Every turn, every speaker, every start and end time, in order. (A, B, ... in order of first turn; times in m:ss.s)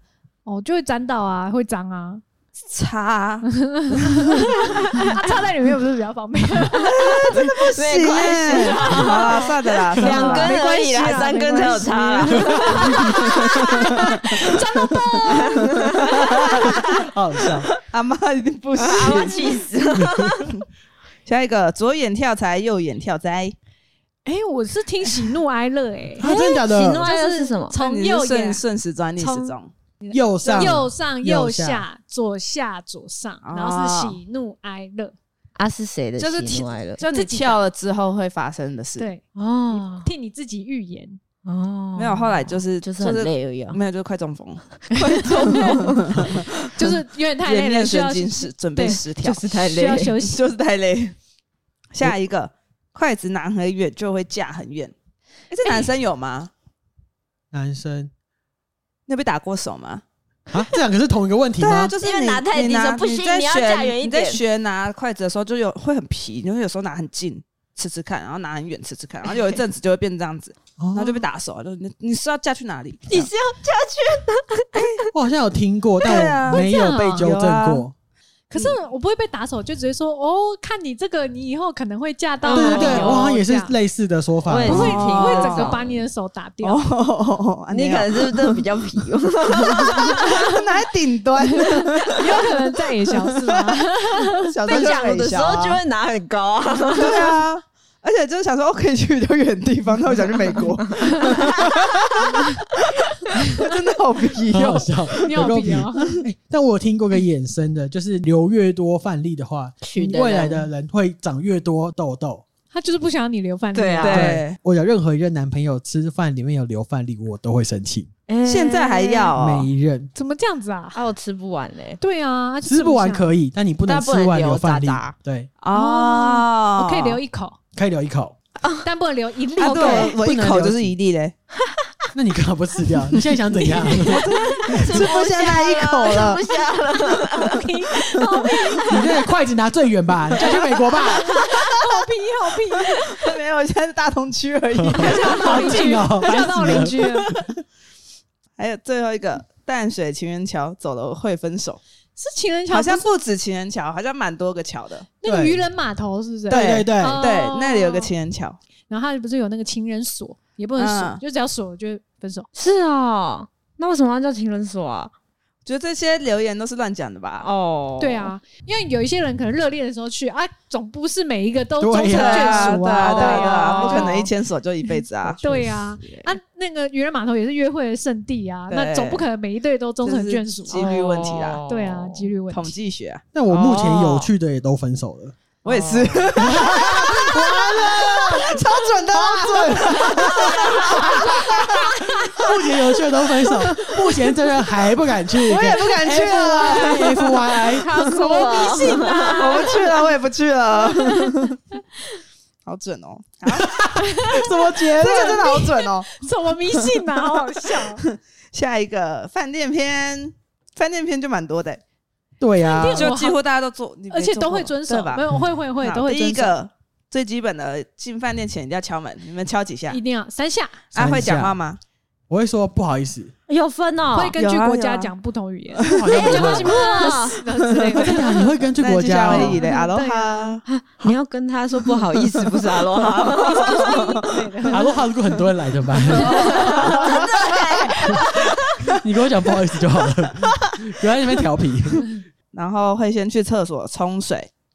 0:00.4-0:02.2 A
0:02.6-0:04.4 B
0:03.4-0:07.3 A
0:04.7-0:05.2 C
0:06.8-0:13.9 C
0:06.8-0:10.6 B
0:08.8-0:09.2 A
0:10.0-0:16.2 A
0:12.8-0:14.1 B
0:15.3-0:17.0 C
0:16.0-0:16.6 B
0:16.6-0:17.7 D
0:17.8-0:19.6 B
0:18.8-0:20.5 C
0:19.9-0:20.5 D
0:21.2-0:23.5 B
0:24.2-0:28.6 A
0:26.2-0:27.1 D
0:26.2-0:27.7 C
0:27.7-0:29.7 B
0:29.2-0:35.1 A
0:30.1-0:31.8 D
0:30.4-0:30.8 B
0:33.4-0:34.2 B
0:35.6-0:37.0 C
0:36.2-0:39.1 B
0:37.0-0:37.6 A
0:39.0-0:41.2 A
0:39.3-0:40.1 C
0:41.4-0:43.8 C
0:42.0-0:46.8 B
0:44.9-0:46.3 C
0:45.2-0:45.9 A
0:46.7-0:49.0 A
0:47.4-0:49.6 B
0:49.2-0:50.2 C
0:49.6-0:50.4 A
0:50.2-0:51.1 B
0:51.9-0:54.9 B
0:55.5-0:56.5 B
0:57.5-0:58.1 D
0:59.1-1:00.0 B
1:00.5-1:01.9 D
1:01.6-1:13.3 B
1:01.6-1:04.4 C
1:10.8-1:11.2 D
1:13.1-1:15.0 C
1:14.7-1:15.0 B
1:15.1-1:17.9 D
1:16.0-1:17.8 B
1:16.5-1:17.2 A
1:18.5-1:23.7 A
1:22.4-1:23.3 C
1:22.5-1:25.0 D
1:24.4-1:26.0 C
1:24.6-1:26.8 A
1:24.7-1:25.7 B
1:26.6-1:32.2 B
1:27.7-1:30.4 C
1:30.0-1:30.6 A
1:31.6-1:34.5 A
1:33.5-1:33.8 B
1:34.4-1:35.8 B
1:34.6-1:37.4 C
1:36.9-1:42.4 B
1:41.0-1:41.8 C
1:43.3-1:45.5 B
1:43.4-1:43.7 A
1:44.5-1:52.4 D
1:45.2-1:46.2 A
1:49.8-1:50.7 C
1:52.7-1:54.2 A
1:53.7-1:54.3 C
1:54.0-1:54.6 B
1:54.1-1:58.1 D
1:58.3-1:59.3 C
1:58.4-1:59.7 B
1:59.3-2:00.1 D
2:00.1-2:01.0 A
2:00.9-2:02.0 C
2:02.0-2:03.2 A
2:02.6-2:05.5 D
2:03.8-2:05.1 C
2:05.6-2:07.2 B
2:05.7-2:07.6 A
2:07.7-2:08.3 D
2:08.8-2:10.1 A
2:09.6-2:11.3 B
2:09.6-2:10.1 C
2:10.2-2:10.9 D
2:12.1-2:15.0 D
2:13.7-2:17.7 C
2:13.8-2:16.5 B
2:17.3-2:19.1 A
2:18.9-2:21.3 D
2:20.4-2:23.2 A
2:23.0-2:25.9 B
2:24.7-2:27.5 D
2:24.9-2:27.3 A
2:28.6-2:31.8 B
2:32.2-2:33.0 A
2:32.7-2:35.1 B
2:35.2-2:38.1 A
2:35.2-2:35.6 D
2:36.5-2:37.2 D
2:36.5-2:38.6 B
2:38.9-2:42.5 A
2:40.8-2:41.2 B
2:42.5-2:45.1 C
2:45.6-2:47.5 B
2:47.4-2:48.3 C
2:48.0-2:54.3 A
2:51.8-2:52.8 D
2:52.0-2:56.3 B
2:53.0-2:54.2 C
2:55.4-3:00.9 A
2:58.7-2:59.2 B
3:00.0-3:01.6 B
3:00.7-3:02.3 C
3:01.7-3:02.7 A
3:02.5-3:04.3 B
3:03.3-3:05.4 D
3:05.6-3:12.0 B
3:05.7-3:06.3 C
3:06.4-3:19.0 D
3:10.1-3:11.0 C
3:13.6-3:14.0 B
3:15.4-3:17.6 B
3:17.7-3:19.7 C
3:17.9-3:19.9 A
3:19.3-3:21.6 B
3:22.6-3:23.8 B
3:23.4-3:25.4 D
3:23.9-3:28.0 A
3:25.0-3:26.2 B
3:26.7-3:31.8 B
3:32.4-3:33.1 D
3:32.6-3:33.4 A
3:32.7-3:35.2 B
3:34.1-3:36.6 A
3:35.8-3:40.0 B
3:39.9-3:40.9 A
3:40.9-3:41.8 B
3:41.0-3:41.6 D
3:42.3-3:43.3 D
3:43.5-3:44.4 C
3:44.1-3:48.5 A
3:44.4-3:45.1 B
3:45.8-3:46.5 B
3:45.8-3:46.8 D
3:46.1-3:47.4 C
3:47.7-3:48.2 B
3:48.0-3:49.6 D
3:48.8-3:50.6 B
3:49.3-3:50.6 A
3:50.7-3:53.9 C
3:52.2-3:54.1 B
3:53.4-3:55.0 A
3:54.7-3:57.4 D
3:56.1-3:57.3 B
3:56.3-3:56.9 A
3:56.4-3:58.8 C
3:58.9-4:02.2 D
4:02.5-4:04.5 B